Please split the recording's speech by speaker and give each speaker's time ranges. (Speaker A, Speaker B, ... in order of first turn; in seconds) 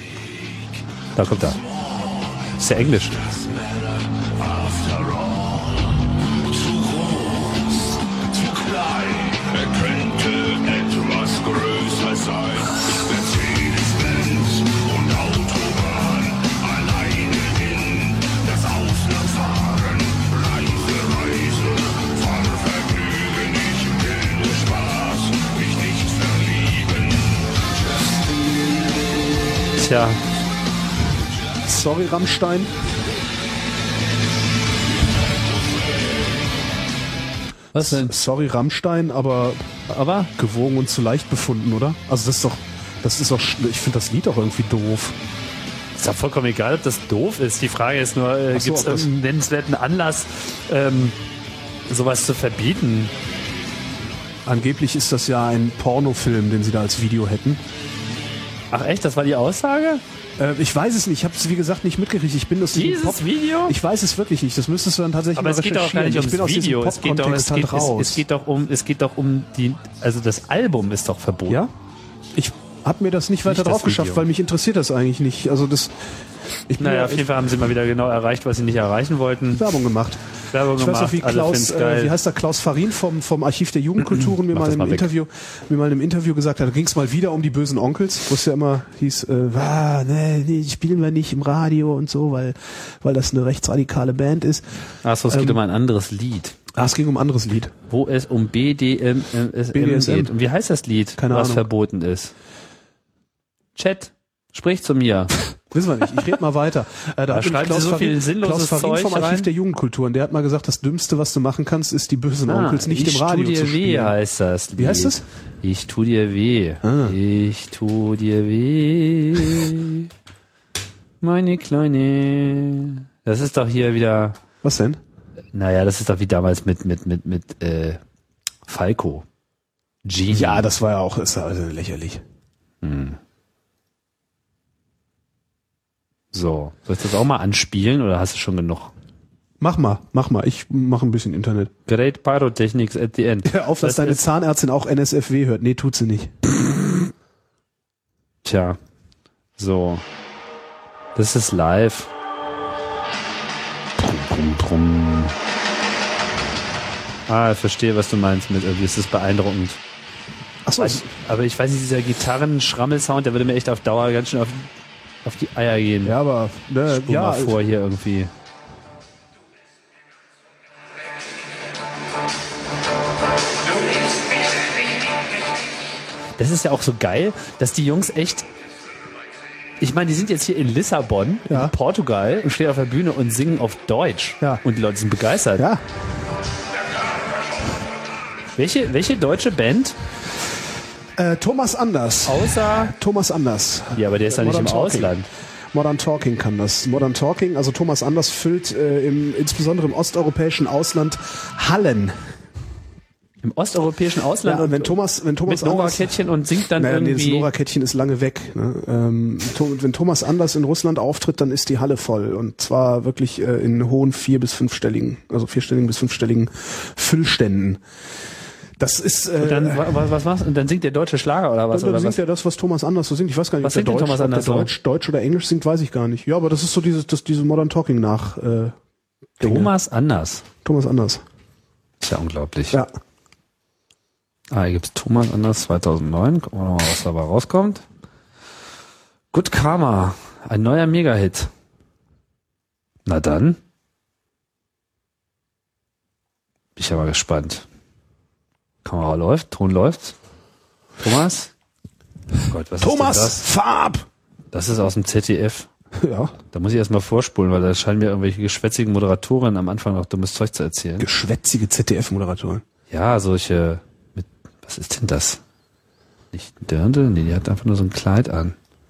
Speaker A: 1.2-1.6, 2.6-3.2, 29.8-30.2, 37.8-38.1, 39.9-40.3, 46.0-51.2, 51.9-53.1, 58.7-60.0, 62.7-63.8, 65.4-71.6, 73.5-74.3, 76.8-79.6, 80.5-82.2, 84.0-85.1, 95.0-96.6, 97.9-102.3, 103.8-105.3, 107.3-109.5, 112.5-120.1, 121.2-124.4, 125.5-128.0, 128.7-129.2, 130.1-130.7, 132.8-133.2, 136.3-138.9, 141.9-144.2, 148.4-148.8, 149.6-150.0, 151.2-152.1, 154.0-155.3, 157.3-159.8, 160.8-164.7, 165.2-166.2, 166.9-168.3, 176.4-178.5, 179.8-185.7, 188.5-190.0, 192.3-192.9, 193.9-195.3, 203.4-207.5, 219.4-222.2, 223.6-224.7, 229.4-230.4, 232.0-232.8, 234.5-237.8, 239.3-241.5, 243.1-243.6, 246.8-247.7, 248.8-250.2, 251.0-251.5, 252.5-253.4, 254.5-255.7, 256.5-261.1, 262.9-265.4, 266.3-268.6
Speaker B: 1.6-2.5, 3.2-27.7
Speaker C: 31.6-32.7, 37.8-39.8, 40.4-45.2, 48.5-49.1, 54.5-57.6, 60.4-68.2, 72.3-76.0, 76.7-77.3, 79.5-94.7, 95.3-95.6, 96.7-97.8, 99.7-100.3, 101.2-101.7, 105.7-114.2, 114.8-115.2, 116.8-117.2, 124.6-125.0, 130.3-132.2, 139.6-141.7, 143.4-146.3, 160.7-161.1, 166.1-167.6, 181.5-181.8, 185.6-185.8, 191.2-195.2, 195.7-202.2, 204.4-206.2, 206.8-217.8, 218.8-219.9, 221.7-228.8, 229.4-229.7, 230.7-231.2, 252.8-254.1, 256.0-256.4, 261.0-262.6